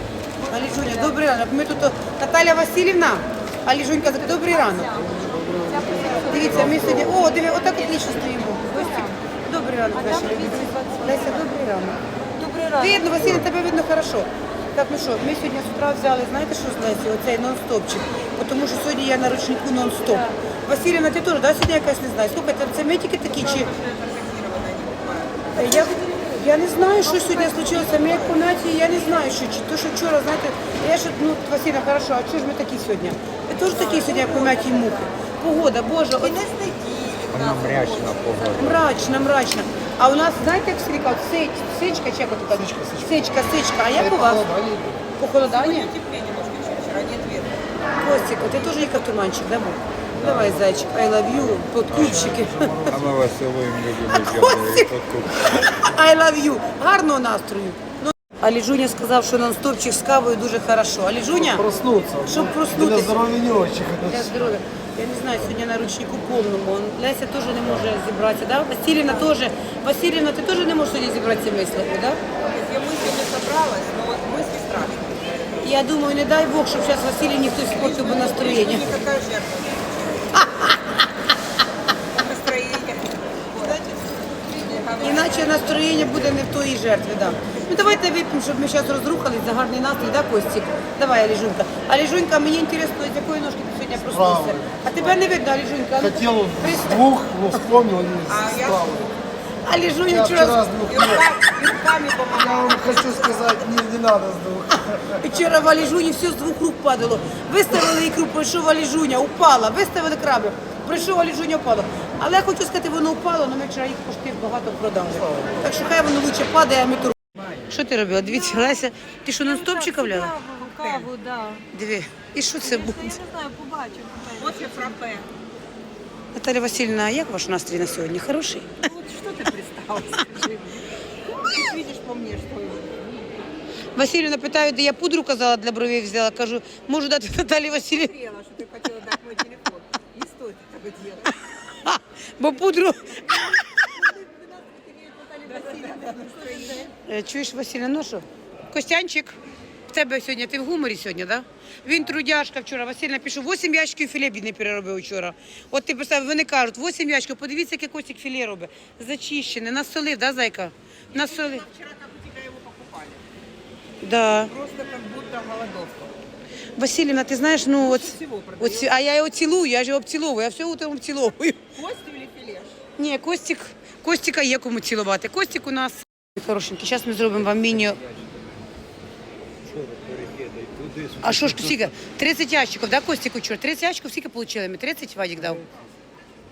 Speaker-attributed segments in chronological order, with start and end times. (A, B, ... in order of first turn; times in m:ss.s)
0:00.4-0:05.0 A
0:05.6-0:06.3 B
0:06.1-0:12.0 A
0:06.6-0:07.1 C
0:12.6-0:23.7 A
0:23.5-0:25.9 D
0:25.5-0:36.4 A
0:27.1-0:28.4 D
0:34.1-0:34.5 D
0:36.2-0:38.6 D
0:37.3-0:39.2 C
0:38.6-0:44.5 A
0:42.6-0:43.2 E
0:44.1-0:45.0 E
0:45.2-0:45.9 A
0:45.4-0:47.6 D
0:48.0-0:52.8 A
0:50.2-0:50.5 C
0:51.3-0:52.2 C
0:52.0-0:53.2 E
0:52.9-0:55.6 C
0:54.1-0:54.9 A
0:55.4-1:03.3 A
1:01.6-1:04.2 E
1:04.0-1:12.2 A
1:12.3-1:15.6 D
1:15.6-1:18.9 A
1:17.7-1:20.5 D
1:20.4-1:20.7 A
1:22.1-1:25.9 D
1:25.0-1:37.2 A
1:34.1-1:34.9 E
1:36.1-1:39.1 E
1:38.2-1:39.0 D
1:39.6-1:40.7 A
1:40.1-1:41.2 E
1:40.9-1:43.7 D
1:42.4-1:45.1 E
1:44.8-2:00.4 A
2:00.4-2:01.6 B
2:00.4-2:01.2 D
2:01.7-2:03.2 A
2:02.7-2:04.4 B
2:04.2-2:05.3 D
2:06.3-2:08.8 A
2:08.8-2:13.5 D
2:14.0-2:18.1 A
2:17.9-2:21.4 D
2:21.7-2:23.8 A
2:23.6-2:26.9 D
2:27.0-2:29.3 A
2:29.9-2:41.6 A
2:41.1-2:43.2 D
2:44.0-2:44.5 A
2:44.5-2:46.1 D
2:46.8-2:51.6 A
2:47.8-2:49.0 D
2:51.7-2:52.8 D
2:53.0-2:58.0 A
2:57.5-2:58.5 C
2:59.6-3:01.9 C
3:01.2-3:05.6 A
3:05.4-3:05.8 C